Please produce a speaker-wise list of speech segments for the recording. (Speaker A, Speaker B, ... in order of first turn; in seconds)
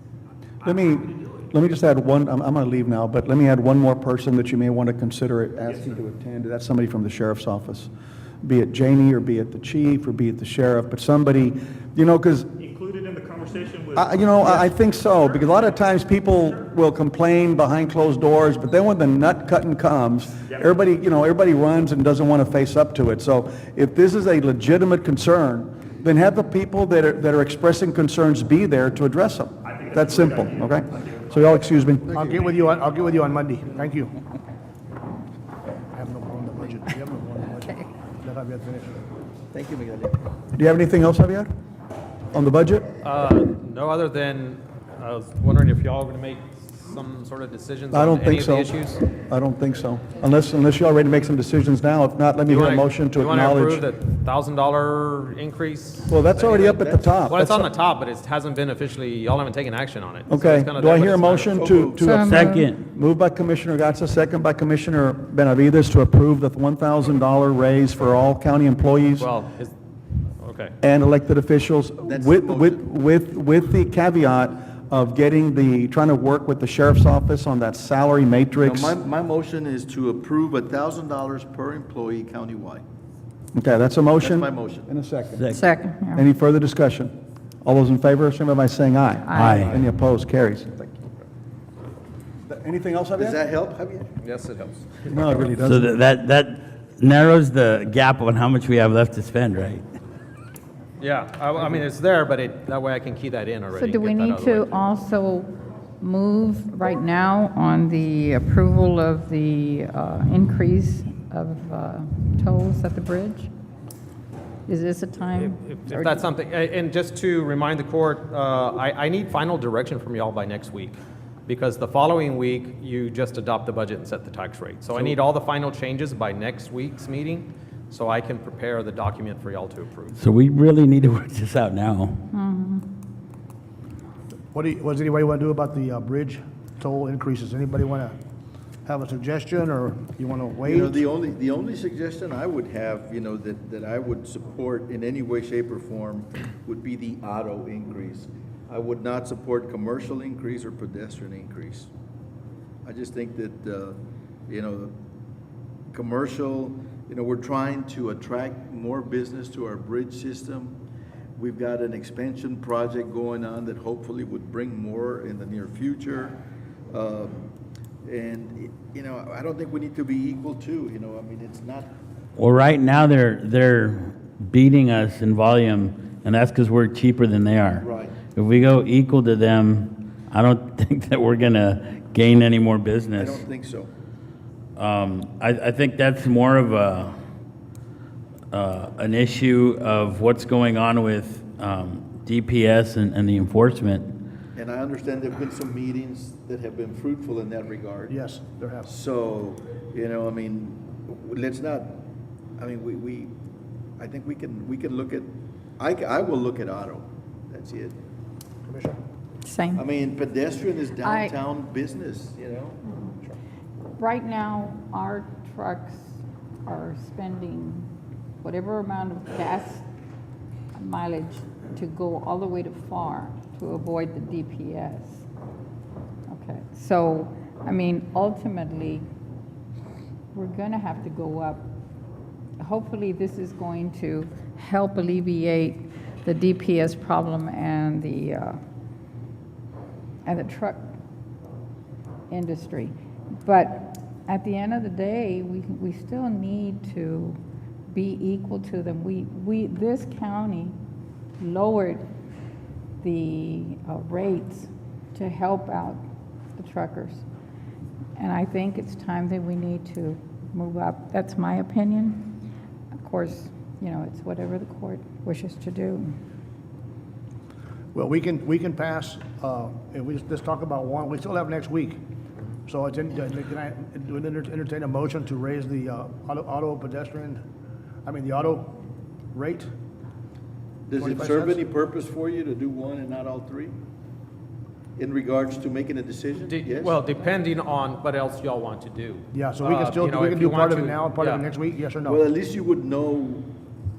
Speaker A: 0.6-7.9, 8.4-12.5, 13.9-32.2, 40.5-41.5, 42.3-42.9, 47.9-53.9, 56.1-57.7, 60.3-69.3, 70.8-79.0, 83.5-85.5, 86.2-91.0, 92.4-93.4, 95.1-95.9
Speaker B: 12.6-14.7, 29.6-31.6
Speaker C: 32.1-34.1, 35.9-39.0, 134.5-138.2, 138.9-141.0, 198.1-198.9, 208.7-209.0, 267.9-272.0, 272.7-277.4, 278.1-278.8, 279.3-279.7, 280.9-281.7, 289.3-292.3
Speaker D: 39.5-40.2, 56.6-57.1, 61.5-62.2, 72.1-72.8, 78.6-82.8, 84.2-84.9, 93.2-94.1, 140.7-151.9, 152.8-154.0, 154.5-154.9, 155.9-160.8, 161.4-166.4, 166.9-167.5, 168.0-171.9, 177.8-178.2, 183.2-183.9, 194.6-198.2, 198.8-202.0, 202.6-203.3, 204.0-208.0, 209.8-212.8, 280.9-283.7, 285.0-287.0, 292.1-293.5
Speaker E: 43.0-49.0, 52.5-61.7, 69.2-69.7, 70.4-70.7, 94.2-94.9, 101.0-104.8, 115.4-130.2, 286.5-291.5
Speaker F: 62.0-62.7, 85.5-86.3, 89.2-89.7, 103.8-113.5, 114.7-116.3, 132.3-132.9, 209.4-209.8, 211.0-211.3, 214.0-217.9, 218.4-219.9, 220.8-225.3, 226.3-229.1, 230.3-231.7, 232.6-238.6, 240.2-240.9, 242.3-247.4, 247.9-250.7, 251.4-252.0, 253.0-256.0, 256.6-257.2, 258.2-262.4, 263.0-266.2
Speaker G: 62.2-62.8, 89.3-89.8, 95.6-99.9, 130.2-132.2, 172.4-183.4, 184.8-187.2, 188.5-194.1